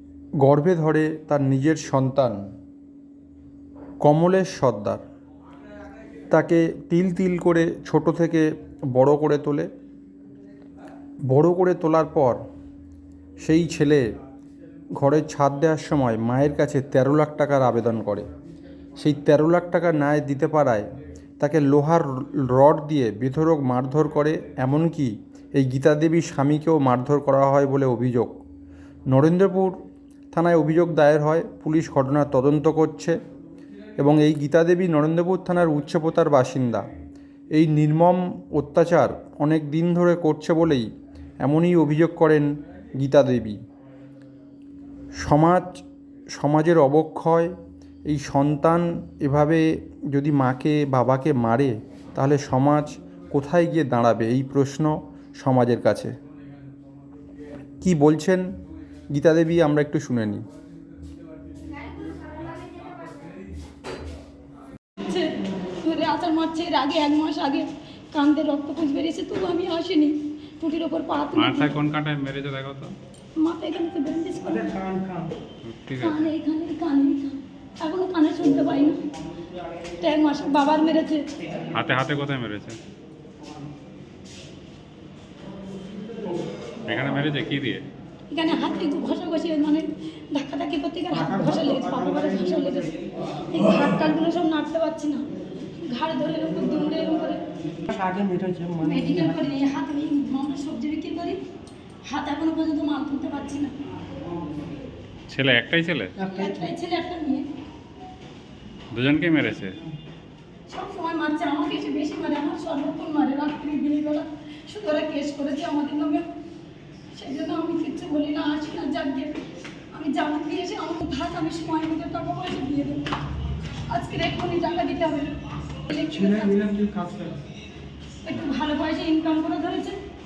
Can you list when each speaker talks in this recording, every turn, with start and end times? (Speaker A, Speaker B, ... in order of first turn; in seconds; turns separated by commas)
Speaker A: 0.4-2.4, Speaker A: 4.0-5.0, Speaker A: 6.3-9.7, Speaker A: 11.3-12.4, Speaker A: 13.4-14.1, Speaker A: 14.9-18.3, Speaker A: 19.0-20.9, Speaker A: 21.4-28.4, Speaker A: 29.1-29.8, Speaker A: 30.3-33.1, Speaker A: 34.0-36.9, Speaker A: 37.5-40.9, Speaker A: 41.4-43.6, Speaker A: 45.2-45.8, Speaker A: 46.3-47.5, Speaker A: 48.0-56.1, Speaker A: 57.8-58.5, Speaker A: 59.1-60.4, Speaker B: 65.0-71.8, Speaker C: 71.3-73.0, Speaker B: 73.4-74.8, Speaker D: 74.5-75.3, Speaker C: 75.6-76.3, Speaker B: 76.0-79.0, Speaker B: 80.0-81.2, Speaker C: 81.7-82.8, Speaker C: 86.9-87.8, Speaker B: 88.3-92.9, Speaker D: 91.2-92.2, Speaker B: 93.5-95.2, Speaker B: 95.8-97.4, Speaker D: 97.8-99.4, Speaker B: 98.8-101.4, Speaker B: 102.0-103.7, Speaker C: 105.3-106.2, Speaker D: 106.2-106.7, Speaker B: 106.2-107.4, Speaker C: 108.9-109.8, Speaker B: 110.7-116.2, Speaker B: 117.1-119.3, Speaker B: 119.9-123.0, Speaker B: 123.9-125.3, Speaker B: 125.9-126.6, Speaker D: 125.9-127.4, Speaker B: 128.2-130.0